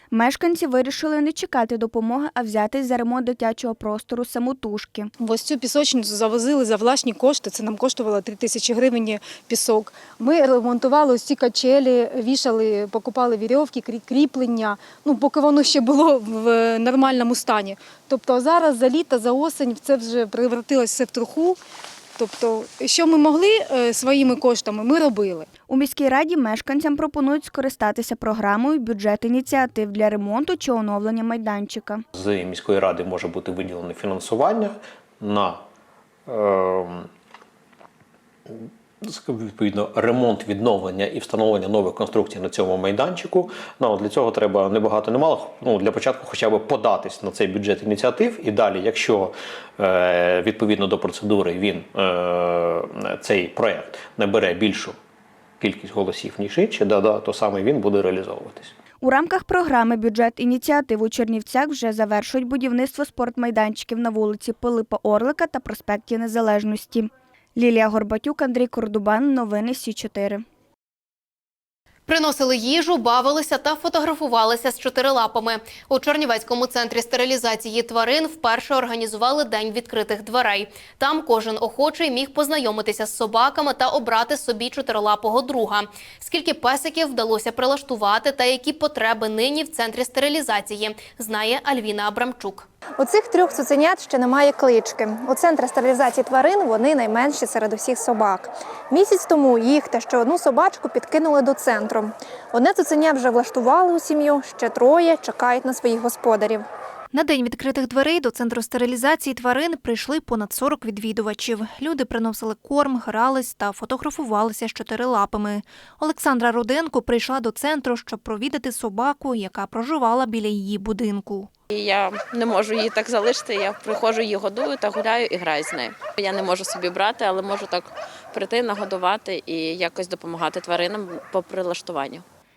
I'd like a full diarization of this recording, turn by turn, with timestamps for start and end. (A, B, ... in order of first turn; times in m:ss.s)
0:00.1-0:05.1 A
0:05.2-0:21.6 B
0:22.2-0:25.5 B
0:25.7-0:32.0 A
0:32.1-0:35.6 C
0:36.3-0:37.1 C
0:38.5-0:54.9 C
0:55.6-0:58.7 C
0:59.0-1:10.4 A
1:12.1-1:32.7 D
1:33.0-1:46.7 E
1:47.1-2:01.5 F
2:01.7-2:12.2 G